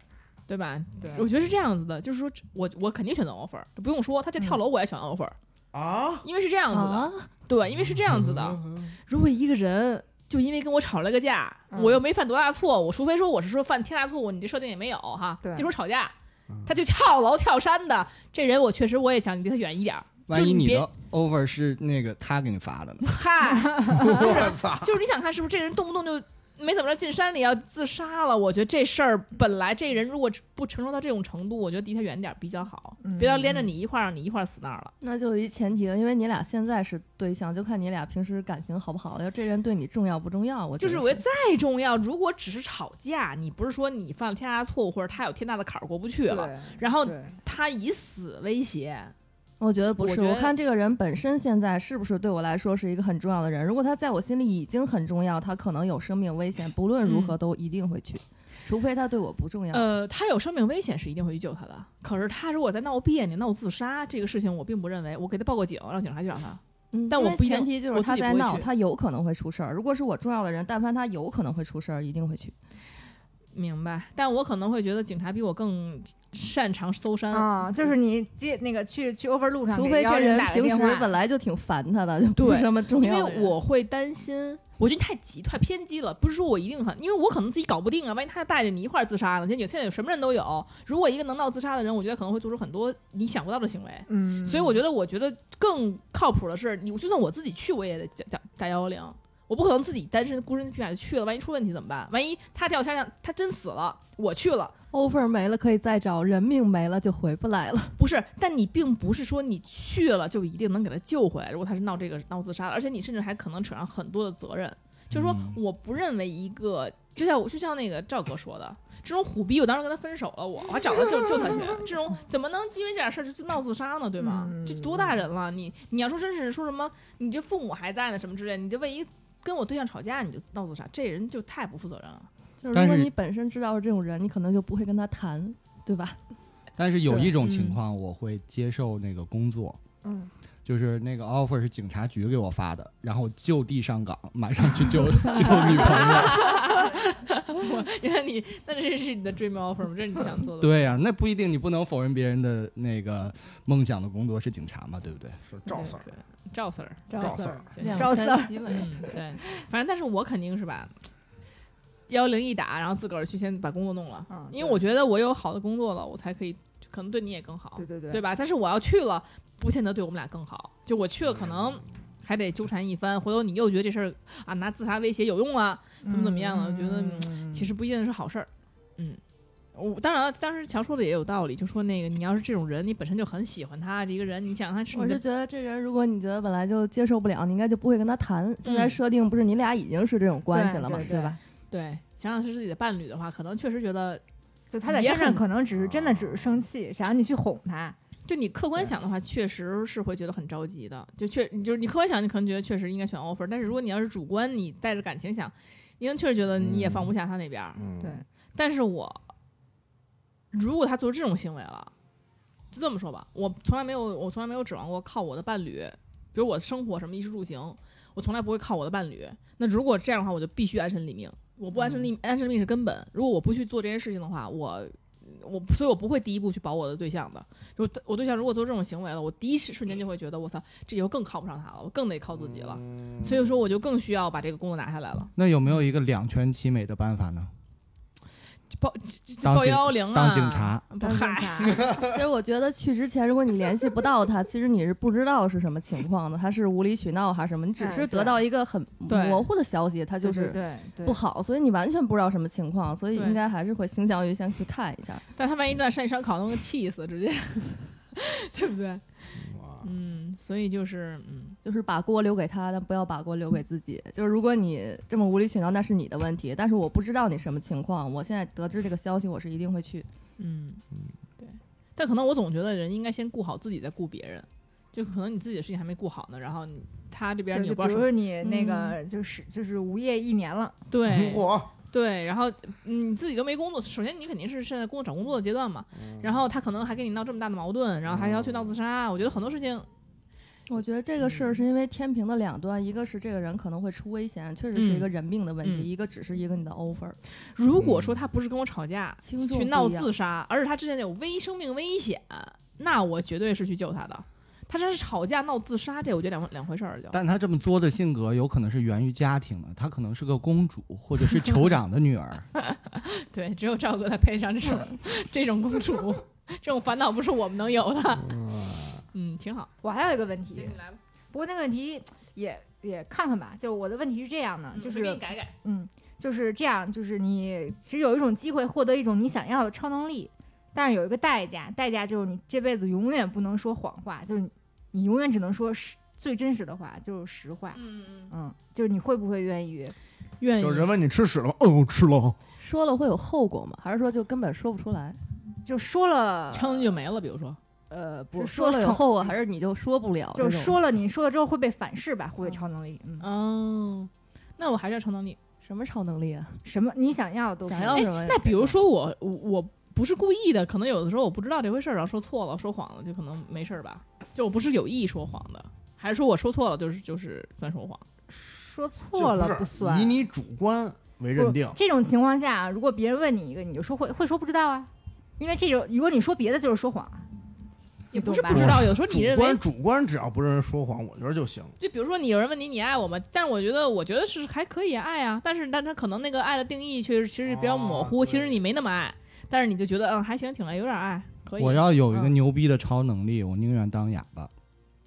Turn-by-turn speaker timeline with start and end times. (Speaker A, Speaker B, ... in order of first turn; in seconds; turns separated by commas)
Speaker A: 0.5-5.3, Speaker B: 1.0-1.3, Speaker C: 5.7-6.2, Speaker A: 6.2-16.1, Speaker D: 6.7-7.3, Speaker C: 8.0-8.9, Speaker B: 11.7-12.0, Speaker B: 15.4-15.7, Speaker A: 16.6-20.9, Speaker E: 20.3-23.2, Speaker A: 23.1-34.9, Speaker B: 23.6-24.2, Speaker C: 23.9-24.9, Speaker B: 33.0-33.6, Speaker D: 35.0-41.2, Speaker A: 40.8-49.1, Speaker B: 46.3-47.3, Speaker D: 49.6-59.9, Speaker A: 49.9-50.5, Speaker A: 57.0-57.4, Speaker A: 59.7-68.7, Speaker D: 66.9-72.5, Speaker A: 73.5-77.9, Speaker B: 77.3-81.1, Speaker D: 79.7-83.5, Speaker A: 82.3-104.7, Speaker B: 94.1-94.8, Speaker D: 104.9-108.0, Speaker A: 108.0-132.3, Speaker E: 115.1-115.6, Speaker B: 124.2-125.1, Speaker D: 132.6-136.2, Speaker E: 132.7-133.1, Speaker E: 136.8-139.8, Speaker A: 137.4-137.8, Speaker B: 140.0-140.3, Speaker E: 140.6-146.6, Speaker A: 145.4-150.8, Speaker E: 150.6-155.4, Speaker C: 155.4-156.1, Speaker A: 155.7-161.1, Speaker B: 157.1-159.1, Speaker C: 157.2-157.7, Speaker D: 157.8-158.9, Speaker A: 162.1-179.2, Speaker B: 164.3-164.8, Speaker B: 167.8-168.2, Speaker B: 176.0-177.7, Speaker A: 179.7-185.2, Speaker D: 184.9-191.4, Speaker A: 188.6-189.0, Speaker B: 190.5-191.4, Speaker A: 191.7-194.2, Speaker B: 194.7-197.9, Speaker A: 194.8-195.4, Speaker C: 195.7-196.6, Speaker A: 198.3-207.8, Speaker C: 206.6-207.1, Speaker C: 207.8-208.2, Speaker A: 208.6-209.2, Speaker A: 210.5-211.9, Speaker A: 212.7-235.3, Speaker C: 232.3-233.5, Speaker E: 235.4-237.5, Speaker A: 238.7-241.8, Speaker E: 239.4-240.8, Speaker B: 241.0-241.8, Speaker D: 241.9-255.2, Speaker B: 247.8-248.4, Speaker A: 249.1-249.5, Speaker B: 250.2-251.2, Speaker A: 253.1-253.4, Speaker A: 255.3-261.6, Speaker C: 259.4-259.9, Speaker D: 261.6-270.1, Speaker A: 270.4-270.8, Speaker A: 271.4-278.7, Speaker B: 277.5-280.7, Speaker A: 280.9-289.9, Speaker C: 281.1-281.7, Speaker C: 288.1-288.8, Speaker D: 290.7-297.2, Speaker A: 294.7-295.1, Speaker A: 295.6-295.9, Speaker A: 297.4-307.2, Speaker E: 297.8-298.2, Speaker D: 299.2-300.1, Speaker E: 307.1-312.5, Speaker A: 312.6-318.3, Speaker C: 318.2-319.0, Speaker A: 319.1-319.7, Speaker B: 319.8-320.8, Speaker A: 320.5-321.0, Speaker B: 321.3-339.9, Speaker A: 324.7-325.5, Speaker A: 337.7-338.3, Speaker A: 340.4-340.9, Speaker C: 340.6-342.4, Speaker D: 342.6-345.2, Speaker B: 345.6-346.9, Speaker A: 346.5-347.6, Speaker B: 347.9-349.3, Speaker D: 348.3-350.8, Speaker B: 350.4-353.3, Speaker A: 353.2-355.4, Speaker D: 355.6-356.6, Speaker B: 356.6-358.1, Speaker D: 357.6-358.7, Speaker A: 357.9-368.0, Speaker B: 368.3-370.2, Speaker C: 369.1-371.8, Speaker B: 371.4-377.3, Speaker A: 378.1-379.6, Speaker B: 378.1-378.7, Speaker C: 378.5-381.7, Speaker A: 381.8-391.9, Speaker C: 387.4-388.6, Speaker E: 391.6-394.5